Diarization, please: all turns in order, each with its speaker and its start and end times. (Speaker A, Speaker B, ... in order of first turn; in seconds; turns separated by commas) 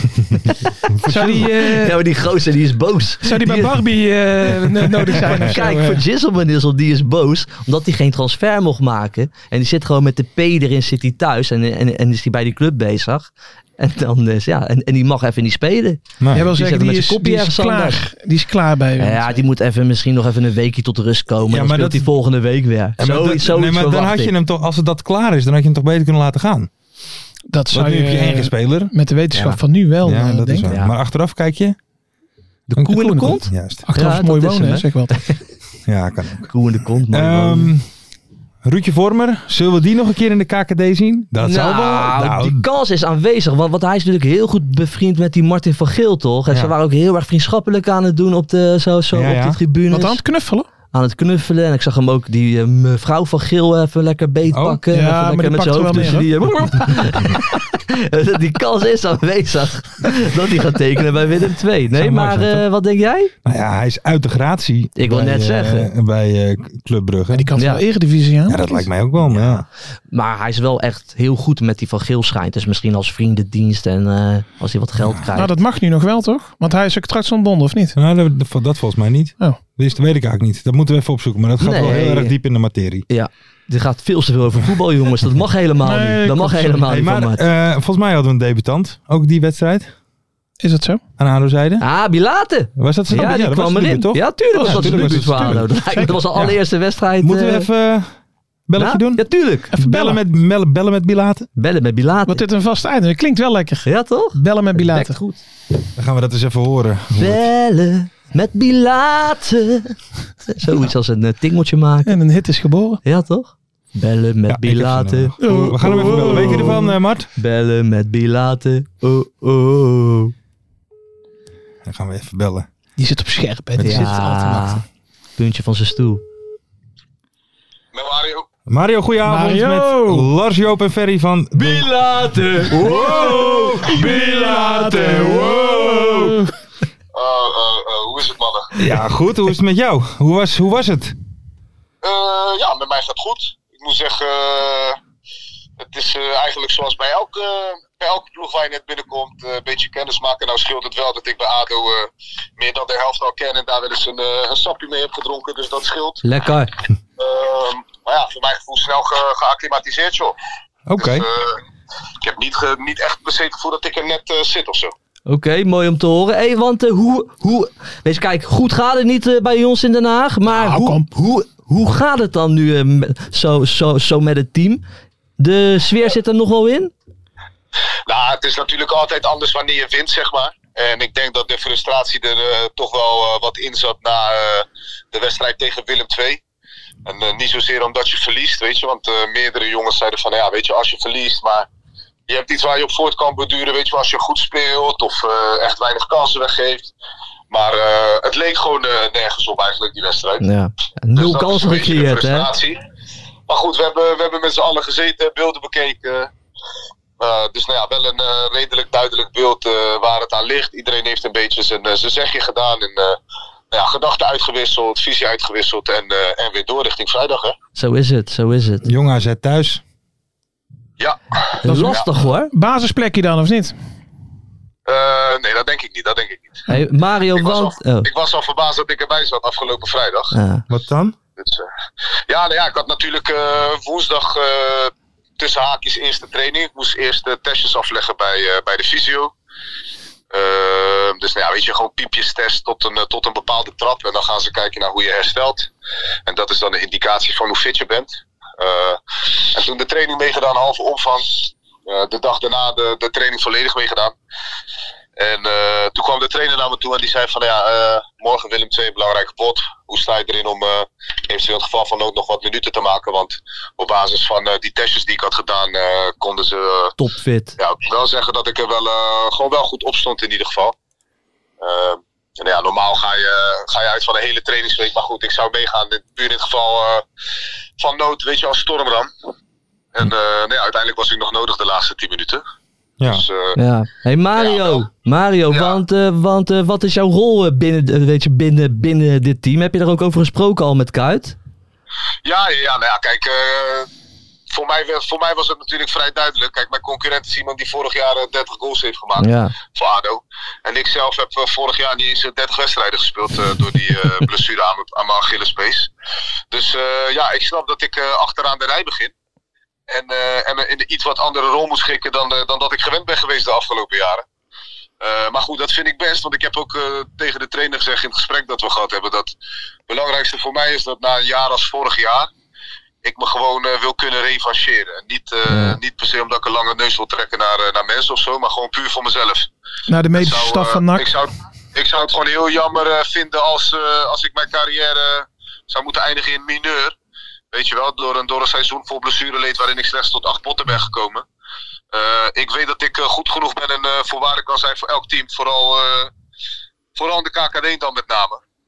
Speaker A: 0.3-3.8, Speaker B: 0.9-1.5, Speaker C: 1.1-2.0, Speaker C: 3.2-6.0, Speaker B: 5.0-5.8, Speaker A: 5.2-18.0, Speaker B: 16.2-16.5, Speaker C: 16.3-19.4, Speaker A: 19.0-24.3, Speaker B: 21.5-22.1, Speaker B: 23.0-26.7, Speaker C: 27.5-30.7, Speaker B: 27.7-28.9, Speaker A: 29.3-29.6, Speaker B: 30.0-31.8, Speaker A: 30.7-30.9, Speaker A: 32.7-35.4, Speaker B: 32.8-33.8, Speaker C: 32.9-35.2, Speaker B: 35.9-36.5, Speaker A: 36.5-37.7, Speaker B: 37.1-37.8, Speaker B: 38.6-42.6, Speaker A: 41.4-50.2, Speaker B: 49.1-49.6, Speaker C: 49.9-50.7, Speaker A: 50.9-63.3, Speaker B: 54.5-54.8, Speaker C: 54.9-56.3, Speaker B: 61.9-62.7, Speaker B: 63.4-67.5, Speaker A: 65.0-65.9, Speaker C: 67.3-68.8, Speaker A: 67.6-67.8, Speaker B: 68.5-69.6, Speaker A: 69.2-75.5, Speaker B: 75.0-75.3, Speaker C: 75.3-78.0, Speaker B: 78.0-83.0, Speaker A: 81.6-82.3, Speaker A: 83.1-87.4, Speaker C: 85.8-86.9, Speaker B: 86.9-89.9, Speaker C: 90.6-91.0, Speaker B: 91.2-91.8, Speaker A: 91.8-97.7, Speaker B: 92.8-95.7, Speaker C: 94.5-96.2, Speaker B: 96.3-96.6, Speaker B: 97.2-98.1, Speaker B: 98.7-101.5, Speaker A: 98.8-99.7, Speaker C: 99.7-100.2, Speaker A: 101.5-102.4, Speaker C: 102.3-105.2, Speaker A: 103.8-105.4, Speaker B: 106.0-107.5, Speaker A: 107.2-112.2, Speaker C: 112.0-113.0, Speaker A: 113.0-116.7, Speaker B: 114.5-117.3, Speaker C: 115.4-116.9, Speaker A: 117.4-120.3, Speaker B: 121.8-122.7, Speaker C: 123.0-124.8, Speaker B: 123.8-124.1, Speaker A: 123.8-124.8, Speaker A: 125.4-126.2, Speaker D: 127.9-128.4, Speaker B: 128.7-136.4, Speaker C: 129.2-130.3, Speaker A: 131.5-135.8, Speaker C: 132.8-136.5, Speaker D: 137.1-138.7, Speaker B: 138.8-141.1, Speaker D: 142.0-145.0, Speaker D: 145.8-156.2, Speaker A: 156.2-156.7, Speaker D: 157.2-160.3, Speaker B: 160.9-161.2, Speaker D: 161.0-161.6, Speaker D: 162.2-164.9, Speaker A: 165.2-174.8, Speaker C: 170.5-171.1, Speaker A: 175.4-176.9, Speaker D: 178.1-186.4, Speaker D: 187.1-191.7, Speaker D: 192.3-196.9, Speaker D: 197.5-200.4, Speaker A: 200.4-202.5, Speaker D: 201.1-202.8, Speaker D: 203.5-206.3, Speaker D: 207.2-213.2, Speaker D: 213.7-217.6, Speaker A: 217.8-218.9, Speaker B: 218.8-219.8, Speaker D: 221.0-222.0, Speaker A: 221.6-222.5, Speaker C: 221.7-222.0, Speaker C: 222.5-223.7, Speaker D: 224.9-226.6, Speaker A: 226.7-228.1, Speaker D: 227.3-230.3, Speaker A: 230.3-230.6, Speaker B: 230.7-231.1, Speaker D: 231.4-231.7, Speaker D: 232.3-239.3, Speaker D: 240.3-245.7, Speaker D: 246.2-254.1, Speaker D: 255.2-266.9, Speaker A: 267.0-267.6, Speaker D: 267.6-270.7, Speaker D: 271.6-277.0, Speaker D: 277.8-279.1, Speaker D: 279.9-282.4, Speaker B: 283.0-283.2, Speaker D: 283.0-283.6, Speaker A: 283.6-291.4, Speaker D: 284.4-284.9, Speaker D: 285.5-285.8, Speaker D: 292.2-293.9, Speaker D: 294.5-305.9, Speaker A: 299.2-299.5, Speaker D: 306.5-309.1, Speaker D: 309.9-314.2, Speaker D: 315.0-319.3, Speaker D: 319.9-322.3, Speaker D: 323.0-329.5, Speaker A: 325.5-325.8, Speaker C: 329.9-331.0, Speaker D: 330.1-336.9, Speaker D: 337.5-341.2, Speaker D: 341.9-346.1, Speaker D: 346.9-348.4